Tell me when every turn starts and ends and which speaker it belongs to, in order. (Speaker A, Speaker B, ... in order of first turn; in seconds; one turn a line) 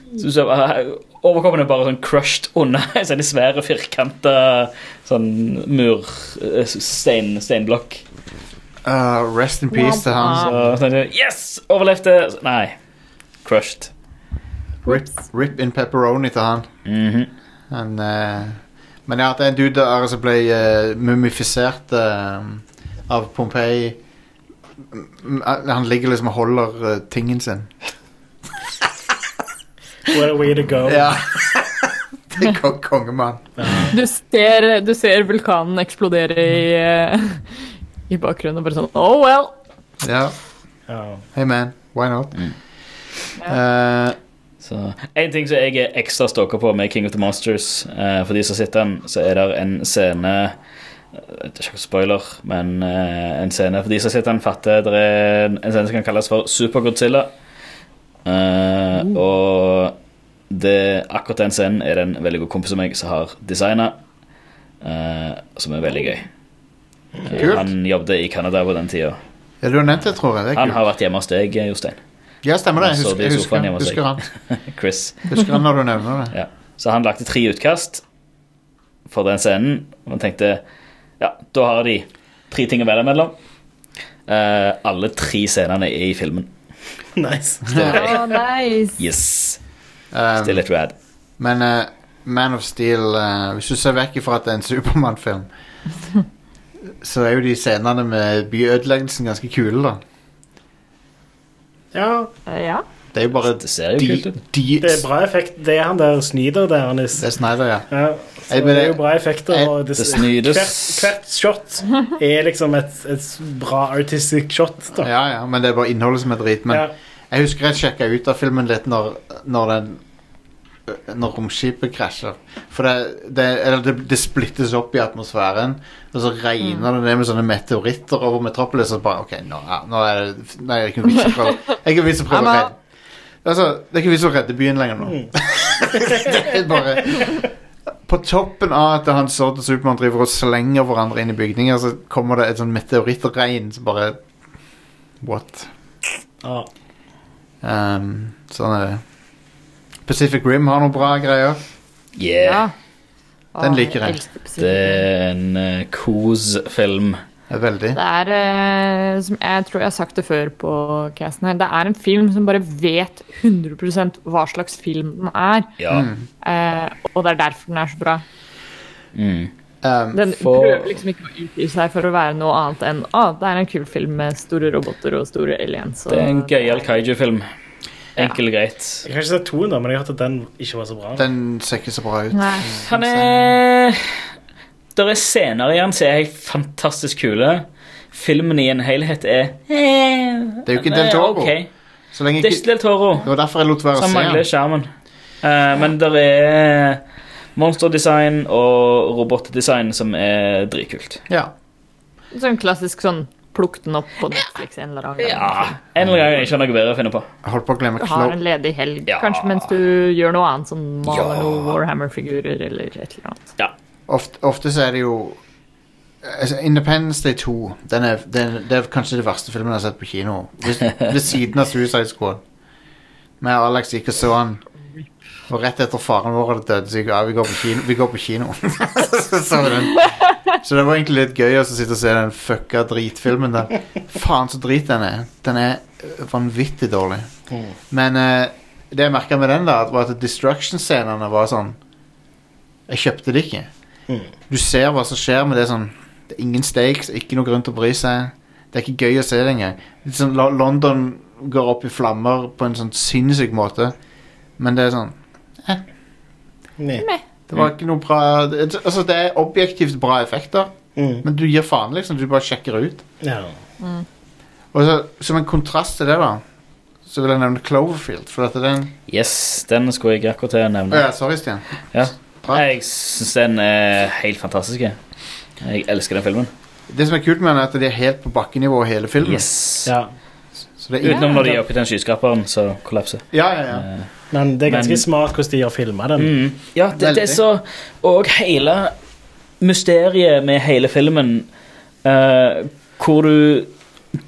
Speaker A: 0.2-8.0
Speaker B: 8.8-10.6
Speaker C: 9.7-10.5
Speaker A: 10.2-12.8
Speaker A: 13.4-13.9
Speaker B: 14.8-16.7
Speaker A: 16.8-17.3
Speaker B: 17.7-24.0
Speaker B: 24.9-27.7
Speaker D: 30.1-31.1
Speaker B: 30.8-33.8
Speaker D: 33.6-33.9
Speaker C: 33.9-37.6
Speaker C: 38.1-39.5
Speaker B: 40.0-40.3
Speaker D: 40.9-41.2
Speaker B: 41.3-42.4
Speaker B: 43.4-44.2
Speaker A: 44.6-50.5
Speaker A: 51.1-57.3
Speaker A: 58.2-60.0
Speaker A: 60.5-64.0
Speaker A: 64.8-66.3
Speaker A: 67.3-69.2
Speaker B: 67.3-67.7
Speaker B: 69.6-70.8
Speaker A: 70.5-72.0
Speaker B: 72.4-74.2
Speaker A: 72.8-75.3
Speaker B: 75.2-76.3
Speaker A: 76.3-78.0
Speaker A: 79.1-80.6
Speaker A: 81.2-83.3
Speaker A: 84.3-86.5
Speaker D: 87.2-88.3
Speaker B: 87.7-88.0
Speaker A: 87.7-88.2
Speaker C: 87.9-89.0
Speaker A: 89.0-89.6
Speaker B: 90.1-90.6
Speaker A: 90.4-90.9
Speaker B: 91.4-95.5
Speaker B: 97.0-100.0
Speaker D: 101.9-102.3
Speaker C: 102.5-102.8
Speaker B: 103.1-105.0
Speaker A: 103.4-104.4
Speaker D: 104.8-107.3
Speaker B: 107.2-107.9
Speaker D: 107.9-115.1
Speaker B: 108.5-109.7
Speaker A: 110.0-111.1
Speaker B: 115.0-120.0
Speaker B: 120.9-132.8
Speaker C: 132.3-132.7
Speaker B: 133.4-137.4
Speaker D: 135.0-135.3
Speaker D: 135.9-136.4
Speaker B: 138.0-144.2
Speaker B: 145.2-145.7
Speaker D: 146.4-146.7
Speaker B: 147.6-149.0
Speaker B: 150.1-151.6
Speaker A: 152.2-152.7
Speaker C: 152.4-152.7
Speaker C: 153.5-155.1
Speaker B: 153.6-154.2
Speaker A: 154.6-157.2
Speaker B: 157.5-158.0
Speaker C: 157.9-165.7
Speaker A: 165.8-166.1
Speaker B: 165.9-166.2
Speaker C: 166.4-168.2
Speaker A: 169.1-169.5
Speaker B: 169.8-170.2
Speaker C: 170.1-176.9
Speaker A: 170.4-171.0
Speaker A: 176.1-177.4
Speaker A: 178.2-179.0
Speaker D: 179.0-181.2
Speaker B: 181.2-183.5
Speaker C: 182.3-182.7
Speaker A: 182.9-184.2
Speaker A: 184.9-191.7
Speaker B: 190.7-191.5
Speaker B: 192.1-192.6
Speaker A: 192.4-193.3
Speaker B: 193.2-194.4
Speaker A: 193.9-194.9
Speaker A: 195.4-197.0
Speaker A: 197.6-201.2
Speaker C: 202.3-205.8
Speaker A: 205.2-207.3
Speaker B: 207.4-208.4
Speaker C: 208.0-213.4
Speaker A: 209.1-209.7
Speaker A: 211.1-211.8
Speaker B: 214.1-215.4
Speaker B: 216.2-222.4
Speaker B: 223.4-224.6
Speaker B: 225.5-237.3
Speaker B: 237.9-241.8
Speaker B: 242.9-243.7
Speaker B: 244.5-253.9
Speaker B: 254.6-255.8
Speaker D: 256.8-257.0
Speaker B: 257.5-263.0
Speaker D: 260.9-261.2
Speaker D: 263.2-263.6
Speaker B: 264.7-266.4
Speaker B: 267.1-268.9
Speaker A: 269.1-271.1
Speaker B: 270.9-271.6
Speaker A: 271.9-275.0
Speaker A: 275.6-276.5
Speaker B: 276.9-279.5
Speaker A: 279.2-279.9
Speaker D: 279.9-280.1
Speaker B: 280.8-281.4
Speaker A: 281.0-284.1
Speaker C: 281.1-281.4
Speaker B: 283.3-283.9
Speaker D: 284.3-286.3
Speaker A: 284.7-285.0
Speaker A: 286.2-288.9
Speaker B: 286.9-287.4
Speaker A: 289.6-291.5
Speaker A: 292.0-293.7